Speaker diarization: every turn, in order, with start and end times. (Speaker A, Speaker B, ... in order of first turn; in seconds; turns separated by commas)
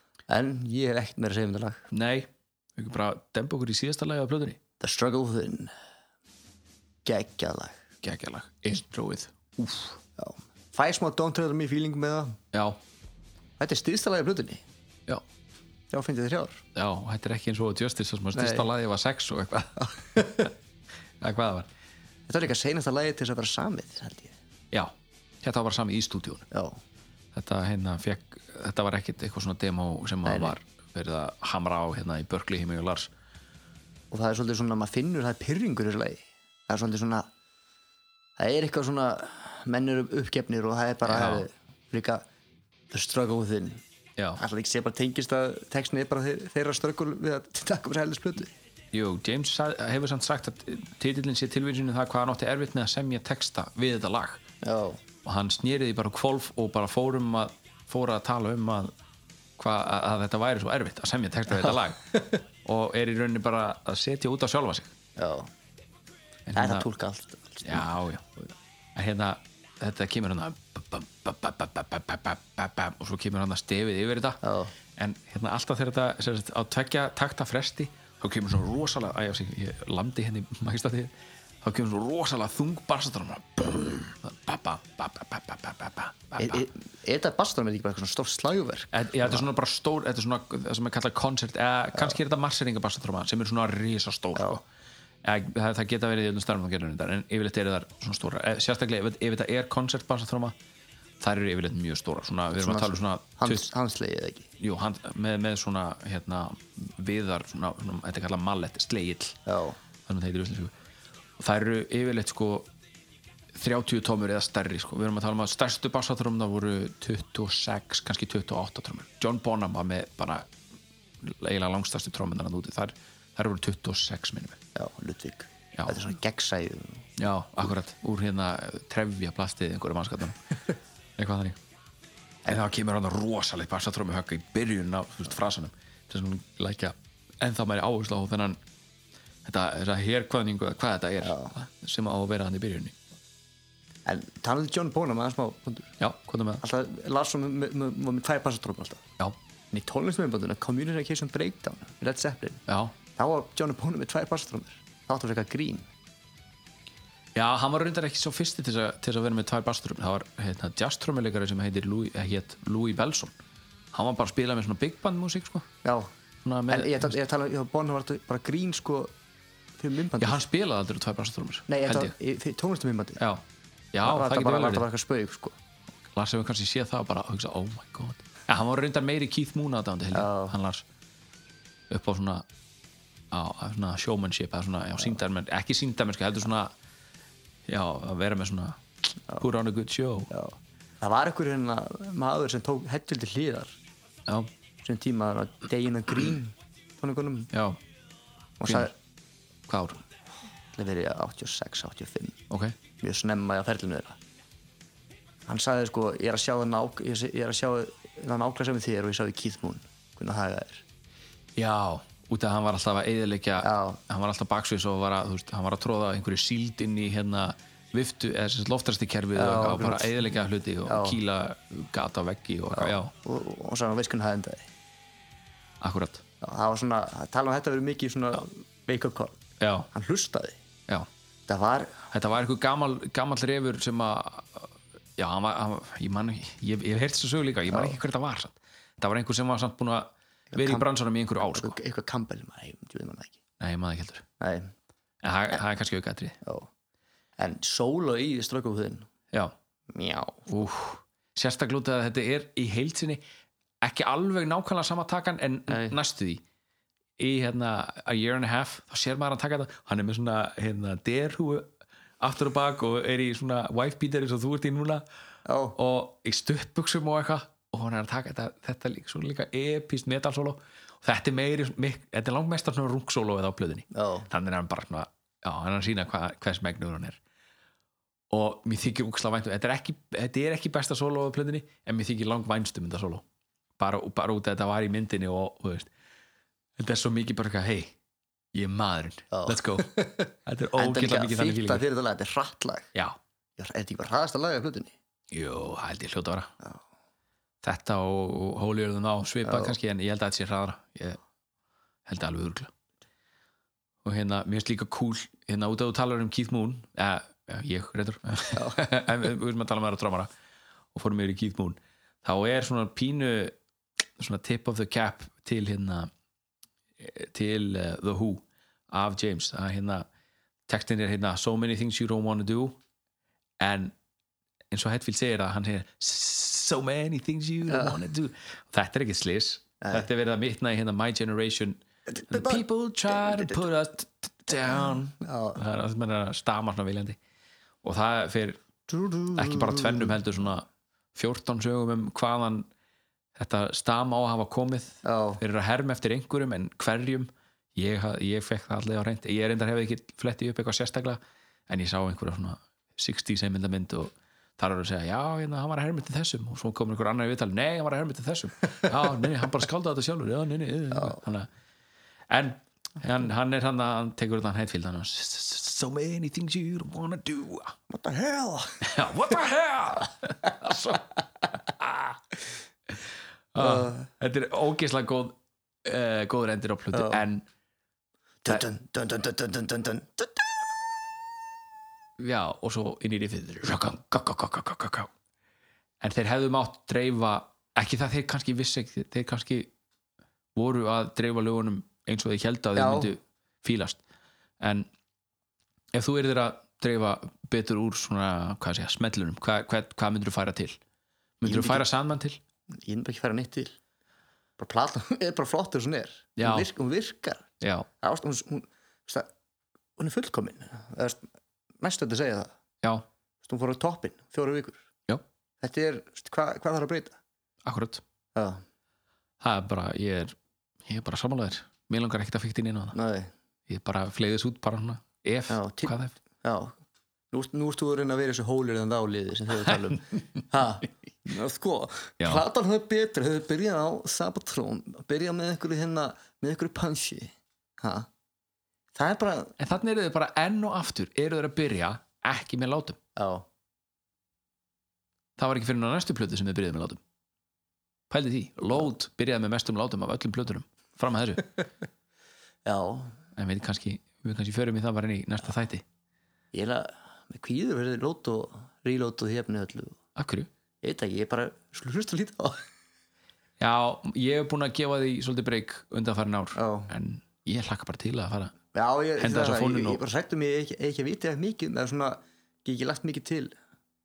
Speaker A: 0.3-1.8, Speaker B: 1.9-4.6, Speaker A: 4.8-5.7, Speaker A: 7.0-7.8, Speaker B: 8.0-10.0, Speaker A: 10.2-12.4, Speaker B: 12.5-12.8, Speaker A: 13.6-14.6, Speaker A: 15.9-16.6, Speaker B: 16.7-20.5, Speaker A: 18.3-18.6, Speaker A: 19.9-20.5, Speaker B: 21.2-21.7, Speaker A: 22.3-24.3, Speaker B: 24.7-26.5, Speaker A: 26.5-26.8, Speaker B: 27.3-33.1, Speaker A: 30.2-30.5, Speaker A: 34.1-37.3, Speaker A: 38.4-42.2, Speaker B: 41.0-41.5, Speaker A: 42.9-43.8, Speaker A: 44.4-48.5, Speaker B: 48.9-54.4, Speaker A: 54.6-55.0, Speaker B: 55.2-58.9, Speaker B: 59.6-64.9, Speaker A: 65.2-65.5, Speaker B: 66.5-66.9, Speaker A: 66.5-67.9, Speaker B: 67.6-68.2, Speaker B: 68.9-74.4, Speaker A: 74.4-74.7, Speaker B: 75.0-86.6, Speaker A: 86.4-89.4, Speaker B: 88.9-94.6, Speaker A: 94.3-94.6, Speaker B: 95.2-100.5, Speaker B: 101.2-103.7, Speaker A: 102.5-104.5, Speaker B: 104.6-109.4, Speaker A: 109.5-109.8, Speaker B: 110.0-110.7, Speaker B: 111.4-112.7, Speaker B: 113.5-120.5, Speaker B: 121.2-124.6, Speaker A: 124.7-127.0, Speaker B: 127.2-130.6, Speaker B: 131.2-131.6, Speaker B: 132.4-138.6, Speaker B: 139.4-143.0, Speaker A: 141.2-141.5, Speaker A: 144.1-145.9, Speaker B: 146.0-146.6, Speaker A: 146.6-149.1, Speaker A: 149.7-155.9, Speaker B: 152.7-152.9, Speaker B: 157.3-163.3, Speaker B: 163.9-165.7, Speaker A: 165.8-166.1, Speaker B: 166.4-167.1, Speaker A: 166.7-169.1, Speaker A: 169.8-170.4, Speaker B: 170.2-172.1, Speaker A: 171.7-173.2, Speaker B: 173.2-174.8, Speaker A: 174.0-175.5, Speaker B: 176.0-180.8, Speaker A: 180.1-180.6, Speaker B: 181.9-182.4, Speaker B: 183.3-186.7, Speaker B: 187.7-188.8, Speaker B: 189.4-190.3, Speaker A: 190.3-193.8, Speaker A: 194.8-197.5, Speaker B: 197.5-197.8, Speaker A: 198.6-198.9, Speaker B: 198.7-198.9, Speaker B: 199.7-200.0, Speaker A: 200.7-202.4, Speaker B: 202.5-202.8, Speaker A: 203.0-204.2, Speaker A: 205.5-210.8, Speaker B: 211.6-223.1, Speaker A: 213.6-214.0, Speaker A: 219.3-221.2, Speaker A: 222.7-224.7, Speaker B: 225.8-226.2, Speaker A: 226.4-229.4, Speaker B: 229.6-229.9, Speaker A: 229.9-230.6, Speaker A: 231.5-232.1, Speaker B: 232.1-241.8, Speaker A: 237.7-238.0, Speaker A: 240.5-240.9, Speaker A: 241.4-243.4, Speaker B: 243.6-244.2, Speaker A: 244.4-244.7, Speaker B: 245.2-246.4, Speaker A: 246.4-246.7, Speaker A: 247.4-249.1, Speaker A: 249.9-250.5, Speaker B: 250.5-253.2, Speaker B: 253.8-256.4, Speaker A: 255.7-255.9, Speaker B: 257.2-265.0, Speaker A: 265.4-265.8, Speaker B: 265.8-277.2, Speaker A: 273.9-274.3, Speaker B: 278.3-283.2, Speaker B: 283.8-285.9, Speaker B: 286.8-287.9, Speaker B: 288.5-291.8, Speaker A: 289.3-292.9, Speaker A: 293.6-294.9, Speaker B: 295.3-296.5, Speaker B: 297.6-301.2, Speaker A: 299.4-299.8, Speaker B: 302.1-302.7, Speaker B: 304.0-310.3, Speaker A: 308.5-308.8, Speaker B: 310.9-313.6, Speaker B: 314.2-316.1, Speaker B: 317.0-320.1, Speaker B: 320.7-322.8, Speaker B: 323.6-323.9, Speaker B: 324.7-337.2, Speaker A: 327.7-328.0, Speaker A: 329.8-330.1, Speaker A: 332.1-332.6, Speaker A: 334.9-335.6, Speaker B: 337.8-338.6, Speaker A: 338.9-340.1, Speaker B: 339.3-342.7, Speaker B: 343.4-361.5, Speaker A: 345.0-345.4, Speaker B: 362.3-367.8, Speaker A: 367.9-368.9, Speaker B: 368.8-371.0, Speaker B: 371.8-372.1, Speaker B: 373.5-377.4, Speaker A: 373.6-374.0, Speaker A: 376.9-377.2, Speaker A: 378.4-380.5, Speaker B: 382.2-385.1, Speaker B: 386.0-389.7, Speaker B: 390.5-394.0, Speaker A: 392.8-393.1, Speaker B: 394.6-394.9, Speaker B: 395.9-400.8, Speaker B: 401.4-402.4, Speaker A: 401.4-401.9, Speaker A: 402.8-403.8, Speaker A: 404.6-407.5, Speaker B: 406.4-406.7, Speaker B: 407.6-407.9, Speaker A: 408.0-409.3, Speaker A: 410.0-411.2, Speaker A: 411.8-412.5, Speaker A: 413.4-414.8, Speaker A: 415.6-417.2, Speaker B: 417.6-418.0, Speaker A: 418.3-418.6, Speaker B: 419.4-422.9, Speaker A: 422.9-423.3, Speaker B: 423.7-426.1, Speaker A: 425.5-426.8, Speaker A: 427.3-438.1, Speaker B: 432.2-432.4, Speaker A: 438.9-439.6, Speaker B: 439.6-443.0, Speaker A: 443.1-443.4, Speaker B: 445.4-447.0, Speaker B: 448.1-451.5, Speaker A: 452.6-453.2, Speaker B: 453.4-455.8, Speaker A: 456.5-460.0, Speaker B: 460.1-460.5, Speaker A: 460.8-462.6, Speaker B: 463.6-468.5, Speaker A: 466.5-466.9, Speaker A: 468.7-473.5, Speaker B: 469.2-470.0